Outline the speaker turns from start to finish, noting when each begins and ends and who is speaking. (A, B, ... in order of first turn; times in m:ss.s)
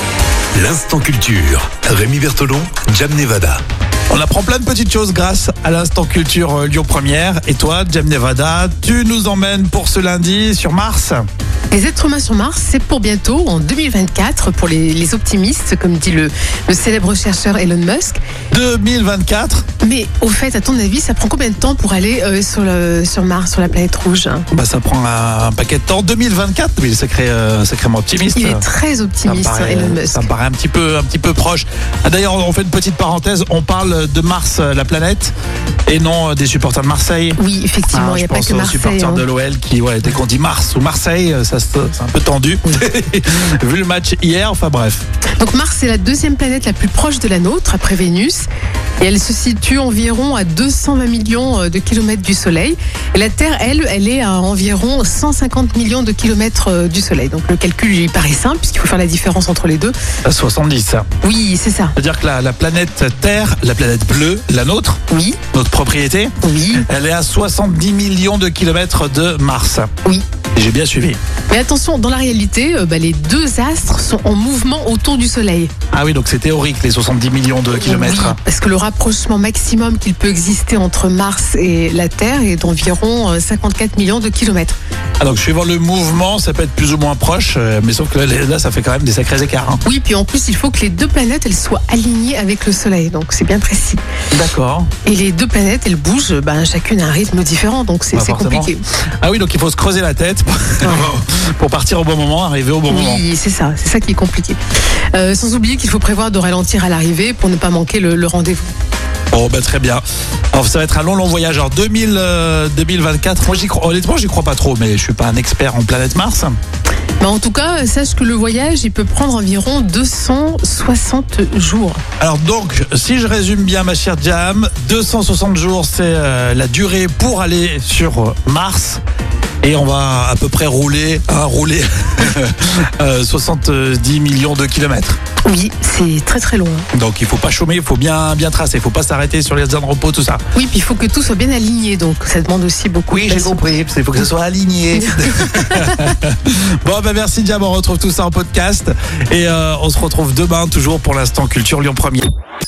0:00.5-0:03.6 A
0:04.1-0:11.2 B
0:11.7-0:18.2 C
0:18.5-0:19.6 B
0:19.8-0:24.5 C
0:24.5-0:28.6 B
0:28.3-0:30.3 C
0:29.2-0:35.3 B
0:35.9-0:37.4 B
0:37.4-0:39.2 C
0:37.9-0:45.0 B
0:45.4-0:48.4 C
0:49.0-0:59.9 C
1:00.2-1:01.1 B
1:01.2-1:02.0 C
1:02.0-1:05.0 B
1:05.1-1:05.4 C
1:05.5-1:09.9 B
1:06.4-1:06.8 C
1:10.5-1:11.2 B
1:11.5-1:15.7 C
1:15.9-1:18.4 B
1:17.8-1:24.8 C
1:25.2-1:29.8 B
1:29.8-1:34.0 C
1:34.3-1:34.9 B
1:35.0-1:38.8 C
1:38.1-1:43.2 B
1:40.8-1:41.1 C
1:42.9-1:44.6 C
1:45.1-1:48.7 C
1:49.3-1:56.6 B
1:57.2-2:02.0 C
2:02.2-2:09.0 B
2:09.6-2:15.2 B
2:15.4-2:16.8 C
2:16.9-2:20.4 B
2:20.5-2:23.6 C
2:23.1-2:32.3 B
2:25.4-2:25.9 C